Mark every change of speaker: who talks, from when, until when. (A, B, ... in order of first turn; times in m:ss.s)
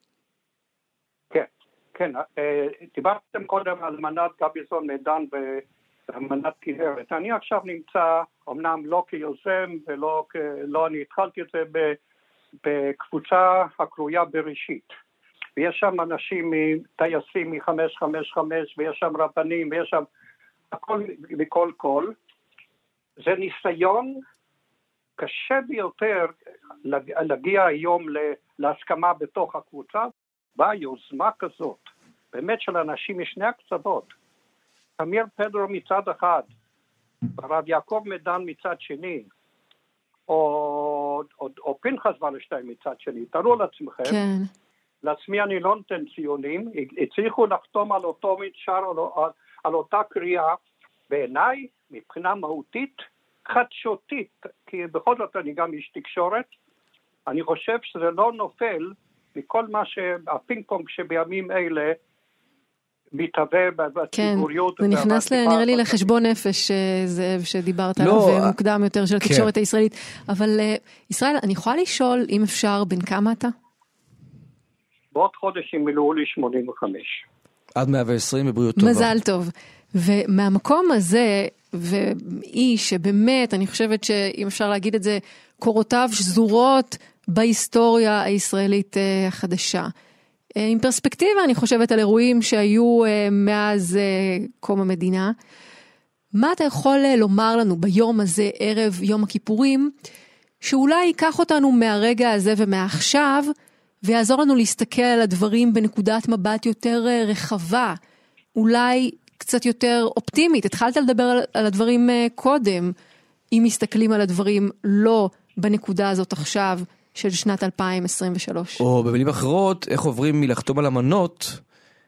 0:01.3-0:12.0 A
0:12.6-0:15.0 A
0:15.6-0:20.1 A
0:20.7-0:22.2 A
0:23.2-0:24.2 A
0:25.2-0:26.3 A
0:26.8-0:34.1 A
0:35.0-0:36.5 A
0:37.4-0:39.3 A
0:40.3-0:44.2 A
0:44.1-0:44.5 B
0:45.0-0:50.6 A
0:51.1-0:56.5 A
0:57.3-1:02.0 A
1:03.2-1:06.0 A
1:04.1-1:13.5 B
1:08.0-1:08.6 C
1:09.2-1:09.5 C
1:15.1-1:17.2 A
1:17.8-1:19.1 C
1:18.8-1:29.9 B
1:30.6-1:35.4 B
1:36.4-1:39.9 B
1:40.6-1:43.5 B
1:44.0-1:48.0 B
1:48.6-1:52.9 B
1:53.5-1:58.8 B
1:58.8-2:01.6 C